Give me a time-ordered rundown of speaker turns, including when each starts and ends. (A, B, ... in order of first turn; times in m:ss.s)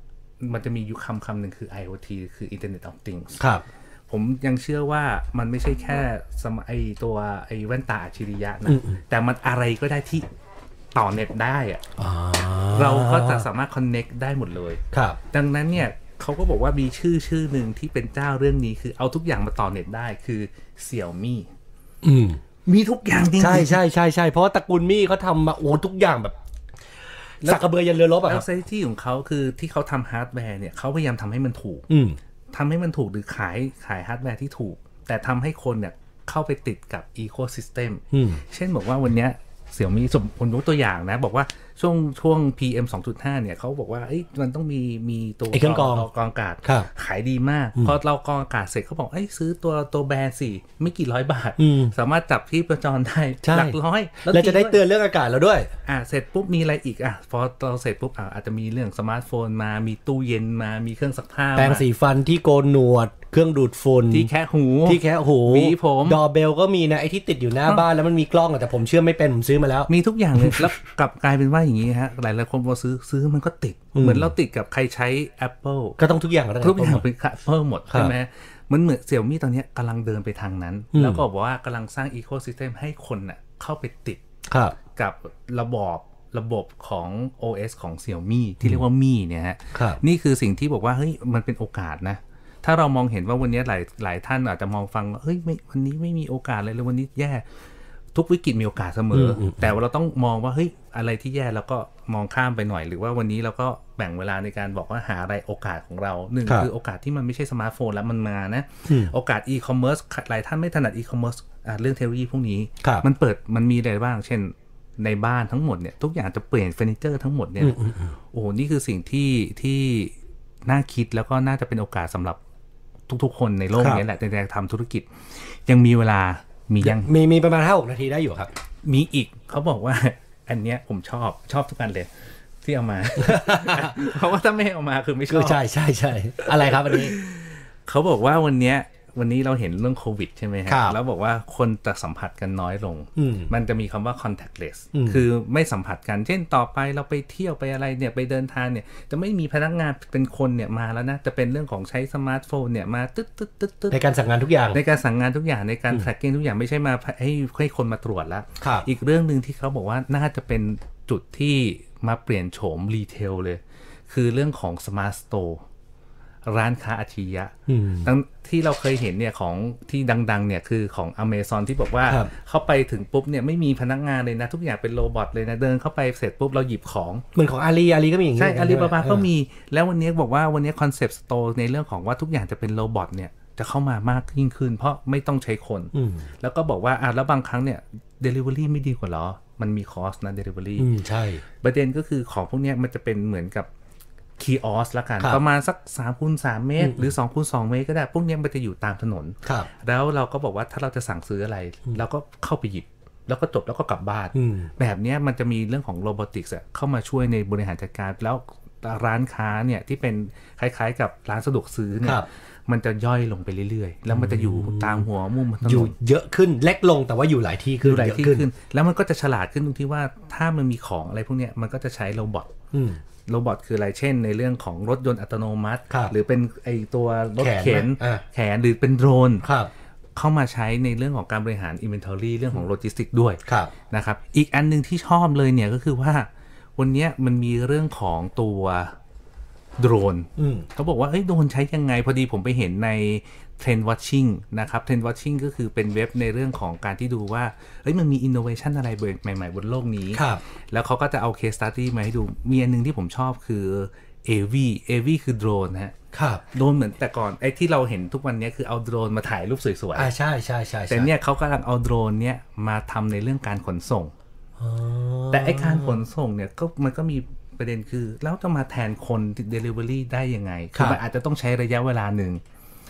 0:00.4-0:03.4 A
0:03.4-0:03.6 B
0:04.1-0:10.3 A
0:08.7-0:09.0 B
0:11.0-0:11.9 A
0:12.0-0:13.5 B
0:12.7-0:21.5 A
0:14.9-0:15.2 B
0:22.0-0:22.4 B
0:22.6-0:23.8 A
0:23.4-0:26.4 B
0:27.4-0:28.5 B
0:28.2-0:31.9 A
0:31.9-0:32.2 B
0:32.5-0:54.8 A
0:38.1-0:38.4 B
0:45.5-0:46.1 B
0:51.6-0:51.9 B
0:53.4-0:55.7 B
0:55.9-1:01.8 A
1:01.6-1:04.3 B
1:04.1-1:06.2 A
1:04.9-1:10.7 B
1:09.9-1:16.0 A
1:14.0-1:14.3 B
1:16.0-1:17.1 B
1:16.6-1:24.2 A
1:20.9-1:21.2 B
1:24.5-1:24.8 B
1:24.9-1:37.4 A
1:29.7-1:30.0 B
1:38.1-1:57.8 A
1:39.1-1:39.7 B
1:48.9-1:49.1 B
1:57.6-1:58.2 B
1:58.3-2:00.1 A
2:00.7-2:02.4 A
2:03.1-2:07.1 A
2:03.8-2:04.0 B
2:06.8-2:08.5 B
2:08.8-2:12.1 A
2:12.6-2:15.6 A
2:13.2-2:14.1 B
2:15.3-2:17.2 B
2:16.4-2:34.0 A
2:20.7-2:21.0 B
2:23.2-2:23.5 B
2:24.9-2:25.2 B
2:33.9-2:34.8 B
2:34.7-2:45.6 A
2:38.6-2:38.9 B
2:46.5-2:57.2 A
2:47.7-2:48.1 B
2:52.1-2:52.3 B
2:57.4-2:59.3 B
2:58.4-3:10.9 A
3:05.9-3:06.3 B
3:10.8-3:11.4 B
3:11.6-3:13.7 A
3:14.4-3:35.9 A
3:16.8-3:17.1 B
3:24.3-3:24.7 B
3:34.1-3:35.1 B
3:35.6-3:38.5 B
3:37.8-3:42.5 A
3:42.7-3:43.0 B
3:43.3-3:49.5 A
3:47.4-3:48.2 B
3:49.4-3:49.7 B
3:50.2-3:59.0 A
3:53.5-3:53.7 B
3:59.8-4:16.0 A
4:00.4-4:00.7 B
4:10.2-4:10.4 B
4:16.1-4:16.4 B
4:16.5-4:20.1 A
4:20.0-4:21.1 B
4:20.9-4:24.1 A
4:24.6-4:26.0 B
4:25.3-4:32.4 A
4:30.8-4:31.0 B